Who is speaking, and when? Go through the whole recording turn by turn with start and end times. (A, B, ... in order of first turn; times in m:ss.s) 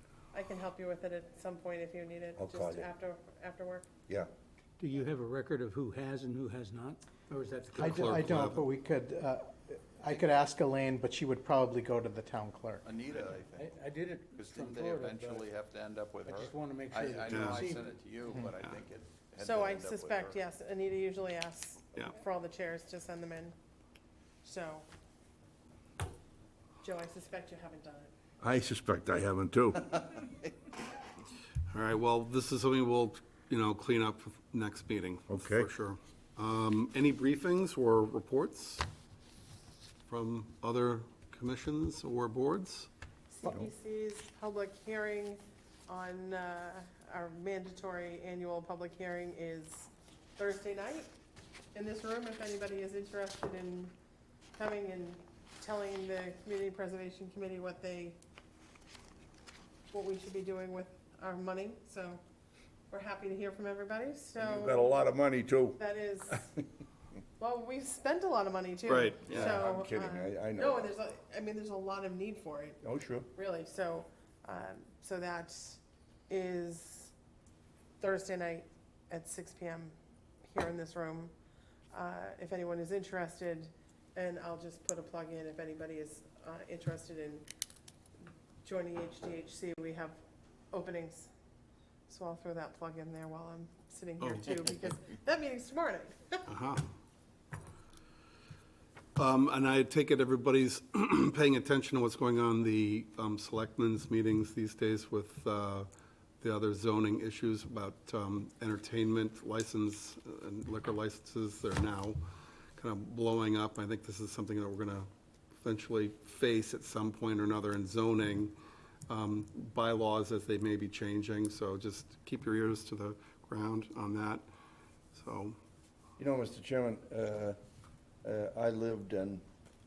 0:00.3-0:03.9 A
0:02.4-0:02.9 B
0:04.8-0:08.6 C
0:07.8-0:12.9 D
0:07.8-0:08.6 E
0:12.8-0:13.8 F
0:13.1-0:15.5 C
0:14.3-0:20.4 F
0:16.2-0:17.9 C
0:17.3-0:17.7 E
0:19.4-0:23.5 A
0:24.4-0:24.9 A
0:26.8-0:28.1 A
0:28.4-0:30.2 B
0:31.7-0:38.8 E
0:35.3-0:35.7 B
0:40.1-0:42.9 E
0:43.3-0:51.1 A
0:51.8-0:53.9 A
0:54.6-0:58.2 A
0:59.9-1:02.2 A
1:02.9-1:05.0 A
1:04.4-1:05.8 B
1:05.8-1:06.6 A
1:07.4-1:12.8 A
1:08.9-1:09.6 E
1:09.3-1:10.8 B
1:12.8-1:13.3 B
1:13.3-1:17.1 A
1:18.0-1:19.9 A
1:20.4-1:21.3 A
1:21.9-1:27.4 A
1:28.6-1:30.2 A
1:30.7-1:31.3 A
1:32.1-1:36.5 A
1:34.2-1:34.7 E
1:36.5-1:36.9 E
1:39.2-1:45.9 E
1:46.4-1:52.2 E
1:52.8-1:55.1 E
1:55.6-1:58.5 E
1:59.1-2:04.4 E
2:05.1-2:05.6 E
2:06.2-2:07.6 B
2:08.2-2:09.4 B